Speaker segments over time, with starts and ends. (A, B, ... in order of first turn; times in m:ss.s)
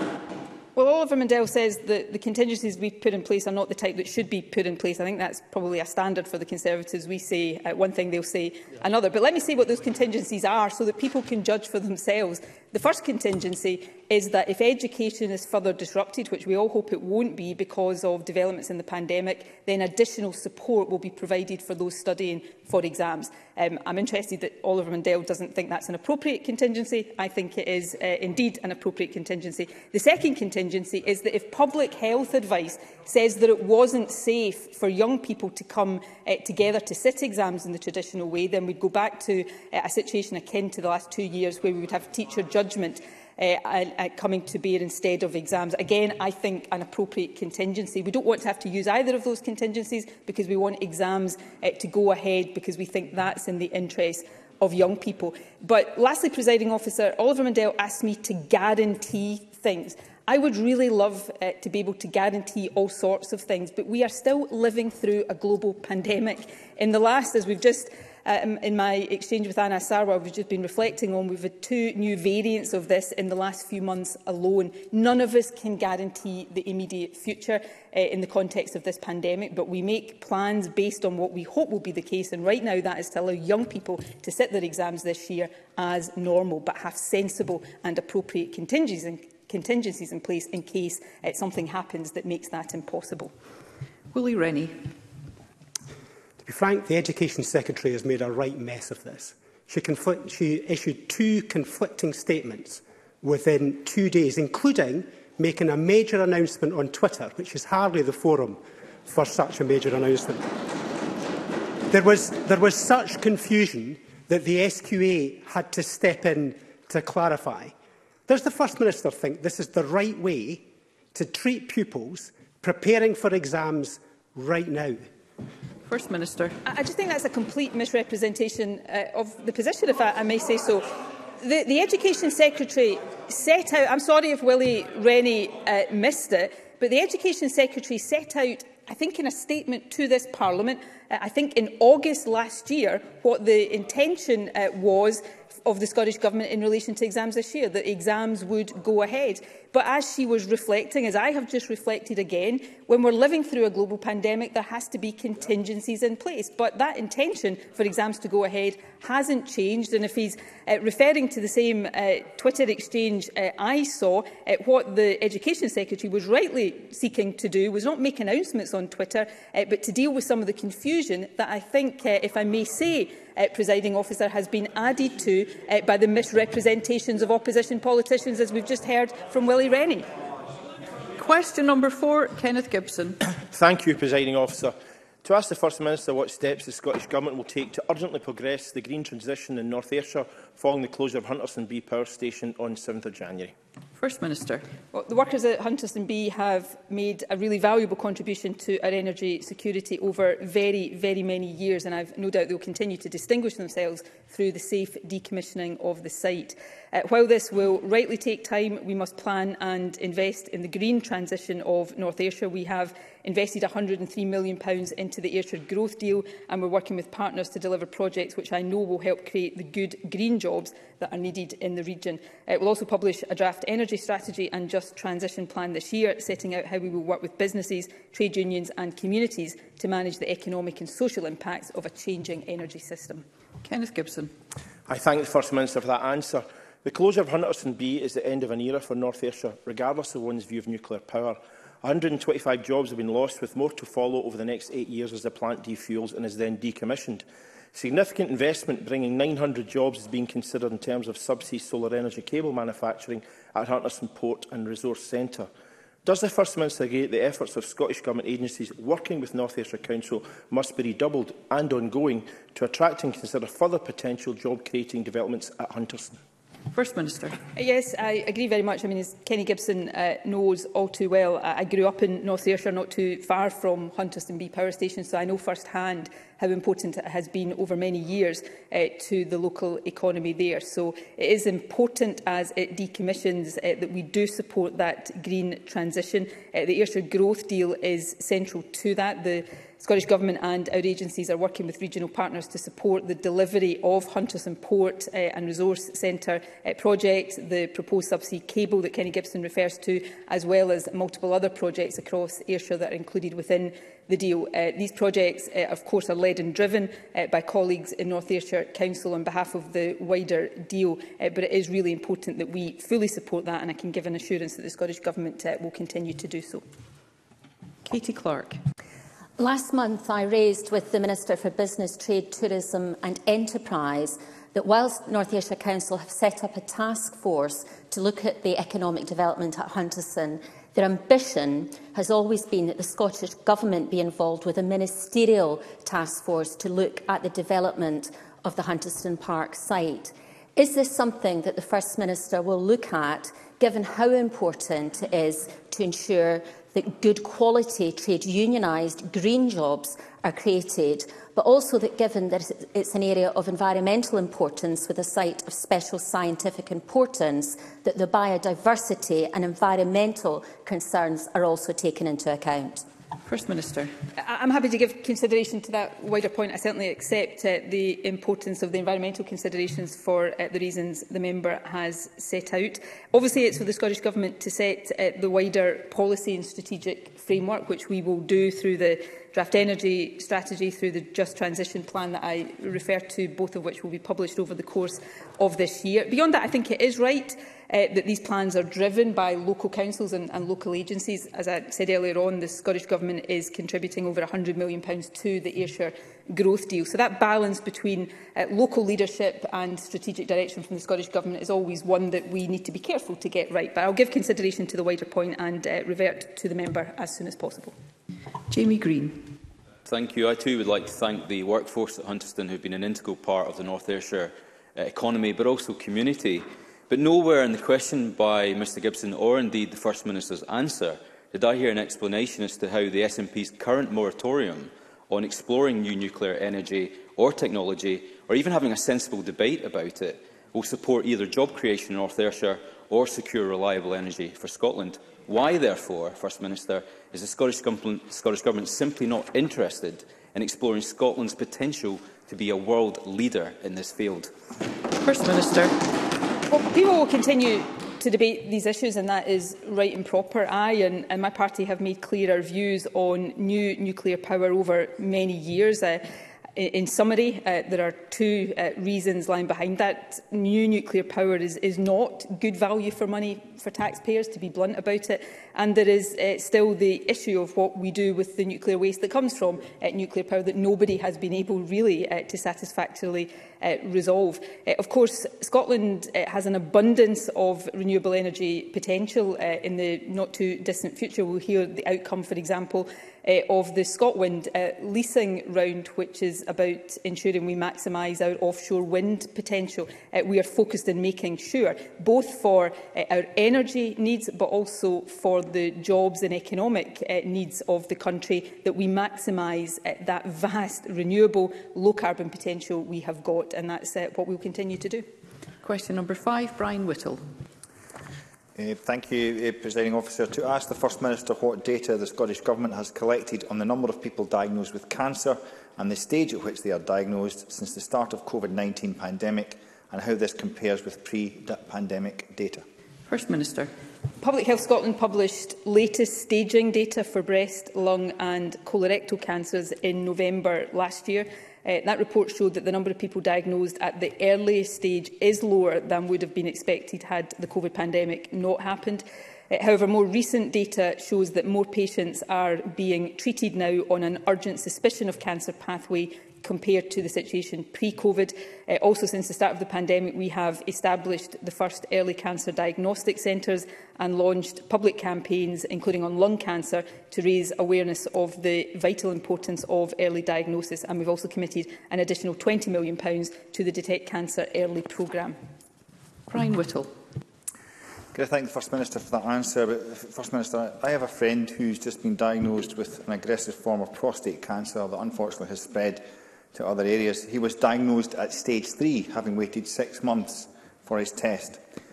0:00.8-1:33.3 A
1:34.1-1:34.8 B
1:36.4-1:50.5 C
1:51.9-1:57.7 C
1:58.3-2:05.1 C
2:05.9-2:06.6 B
2:06.6-3:00.0 A
3:01.2-3:03.2 B
3:03.5-3:13.5 D
3:14.0-3:14.6 B
3:14.9-3:53.2 A
3:53.6-3:54.3 B
3:54.9-4:15.5 D
4:16.0-4:26.1 D
4:26.7-4:27.4 B
4:27.5-5:16.6 A
5:17.8-5:18.6 B
5:19.4-6:02.8 E
6:03.2-6:03.9 B
6:04.2-6:47.7 A
6:48.5-6:49.3 B
6:49.8-7:24.3 F
7:25.0-7:25.7 B
7:26.5-8:25.1 A
8:25.6-8:27.2 B
8:28.6-8:42.6 G
8:43.1-8:43.7 B
8:44.2-9:25.4 A
9:26.3-9:26.9 B
9:28.1-9:41.6 G